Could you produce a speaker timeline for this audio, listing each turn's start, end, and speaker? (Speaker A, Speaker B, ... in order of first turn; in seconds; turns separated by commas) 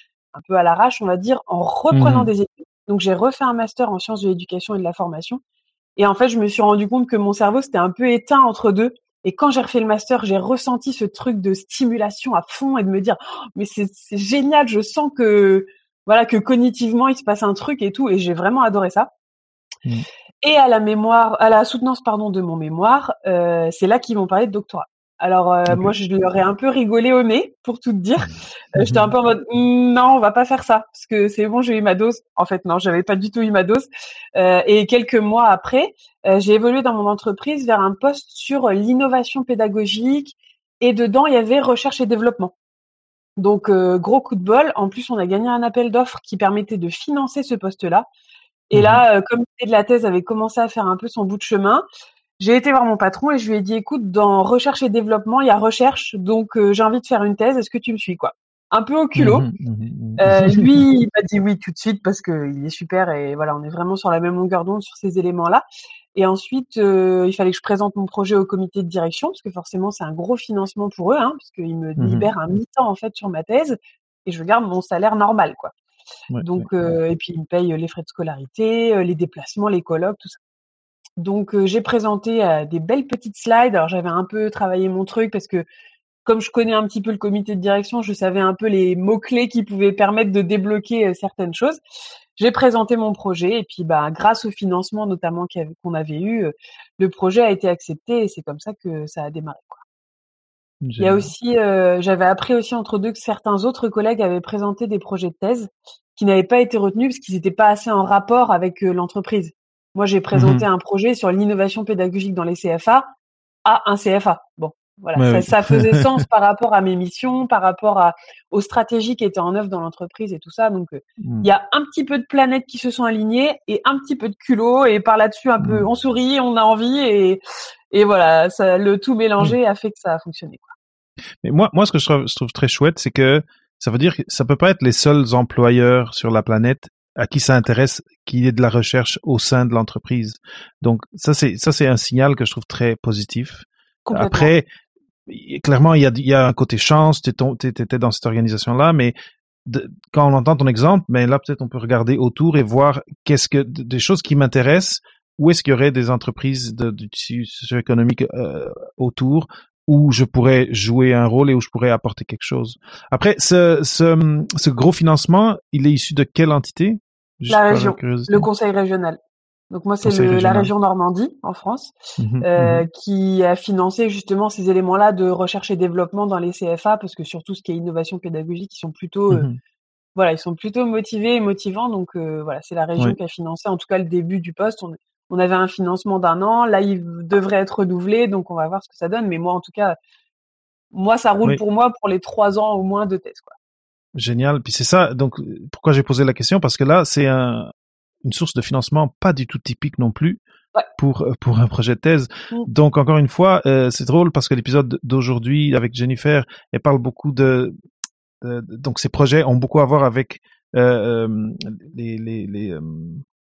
Speaker A: 0.3-5.4, Speaker B: 1.9-2.3, Speaker A: 6.0-19.1, Speaker A: 20.4-42.5, Speaker B: 28.8-29.1, Speaker A: 43.4-48.1, Speaker A: 48.7-51.8, Speaker B: 48.7-49.0, Speaker A: 52.4-59.5, Speaker B: 59.1-60.7, Speaker A: 60.2-65.6, Speaker A: 66.1-75.7, Speaker B: 72.0-72.3, Speaker B: 76.3-76.7, Speaker A: 76.4-80.4, Speaker A: 81.2-85.7, Speaker A: 86.2-91.8, Speaker A: 92.3-99.8, Speaker B: 100.8-101.3, Speaker A: 101.0-113.1, Speaker B: 110.3-110.6, Speaker A: 113.6-130.7, Speaker B: 115.2-116.1, Speaker B: 121.2-121.5, Speaker B: 125.6-125.8, Speaker B: 131.4-144.7, Speaker A: 144.1-144.5, Speaker B: 145.3-149.1, Speaker B: 149.7-168.5, Speaker A: 167.5-179.5, Speaker B: 170.0-170.7, Speaker B: 172.2-172.8, Speaker B: 179.3-179.6, Speaker A: 180.2-190.0, Speaker A: 190.9-193.5, Speaker B: 194.1-197.7, Speaker B: 198.2-200.4, Speaker B: 201.0-207.7, Speaker B: 208.4-213.2